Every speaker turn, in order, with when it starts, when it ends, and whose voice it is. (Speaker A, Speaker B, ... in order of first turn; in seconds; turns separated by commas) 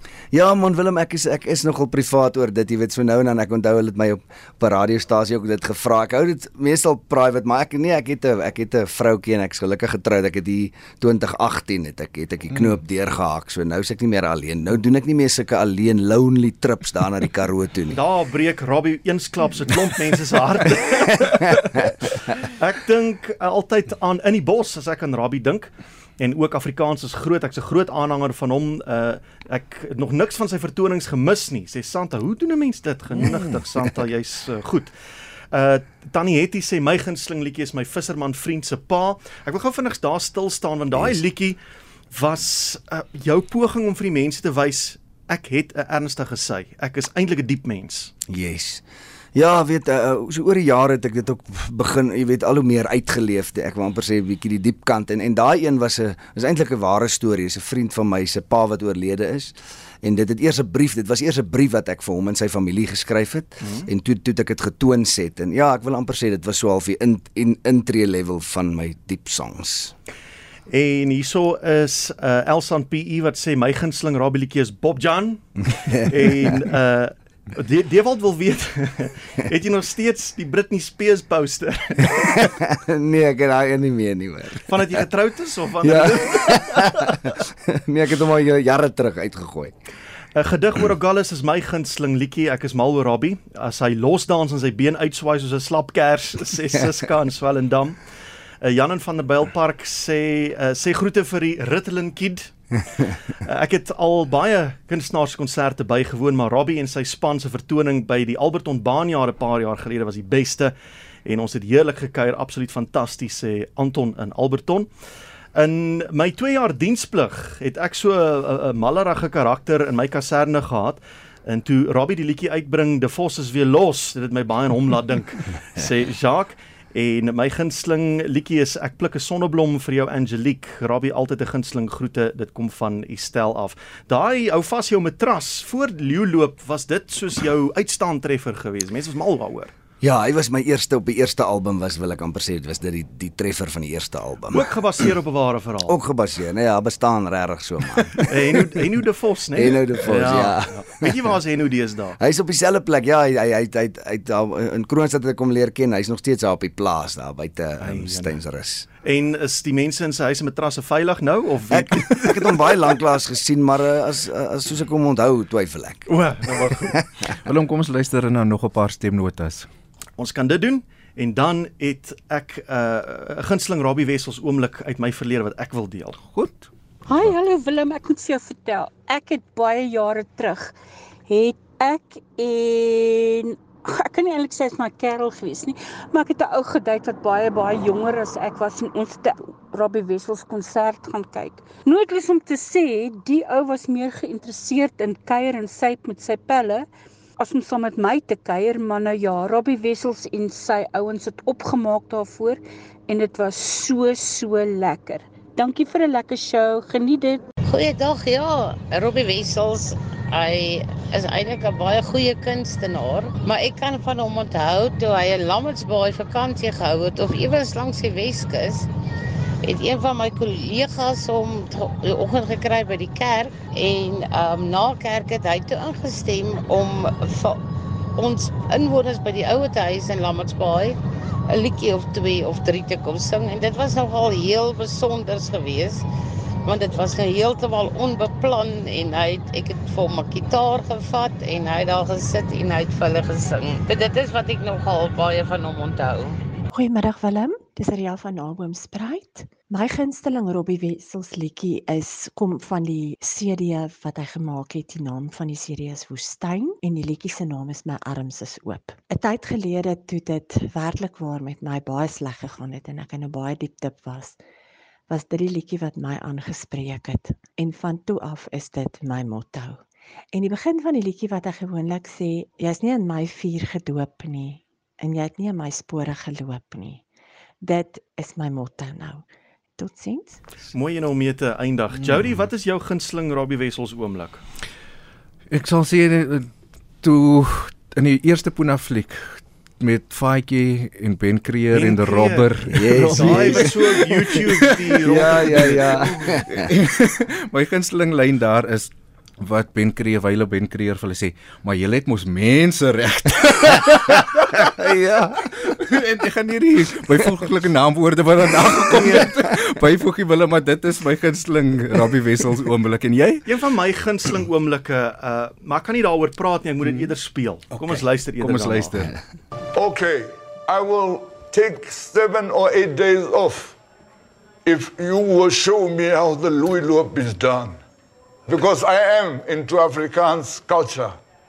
Speaker A: 0.3-18.0, Speaker B: 17.9-34.9, Speaker B: 35.5-41.6, Speaker B: 42.1-48.1, Speaker A: 48.3-48.8, Speaker A: 49.3-69.9, Speaker B: 63.6-63.9, Speaker B: 70.7-82.5, Speaker A: 75.8-76.1, Speaker A: 82.2-84.8, Speaker B: 84.7-86.9, Speaker A: 85.8-89.7, Speaker B: 90.3-98.0, Speaker B: 98.6-102.6, Speaker B: 103.4-110.7, Speaker B: 111.2-114.9, Speaker B: 115.5-139.7, Speaker A: 140.0-144.7, Speaker B: 144.5-146.0, Speaker A: 145.8-148.3, Speaker B: 148.2-152.2, Speaker A: 149.5-151.1, Speaker A: 152.2-158.9, Speaker B: 157.8-158.4, Speaker B: 159.0-162.8, Speaker A: 161.7-166.1, Speaker B: 166.1-166.9, Speaker C: 167.4-169.7, Speaker B: 170.2-176.2, Speaker C: 176.2-176.7, Speaker D: 177.1-180.7, Speaker D: 181.3-196.8, Speaker D: 197.4-207.4, Speaker E: 207.7-218.9, Speaker E: 219.6-227.6, Speaker E: 228.2-231.0, Speaker E: 231.5-236.0, Speaker E: 236.7-246.4, Speaker F: 246.7-264.4, Speaker F: 265.1-277.0, Speaker F: 277.6-279.2, Speaker F: 279.8-280.4, Speaker B: 280.7-284.4, Speaker C: 285.5-294.4, Speaker B: 291.7-296.3, Speaker A: 292.7-293.7, Speaker A: 295.0-296.7, Speaker C: 295.3-304.7, Speaker A: 304.6-305.5, Speaker C: 305.4-313.4, Speaker B: 308.9-309.3, Speaker B: 313.4-319.1, Speaker C: 317.7-319.2, Speaker G: 319.7-323.8, Speaker G: 324.6-327.8, Speaker G: 328.5-331.1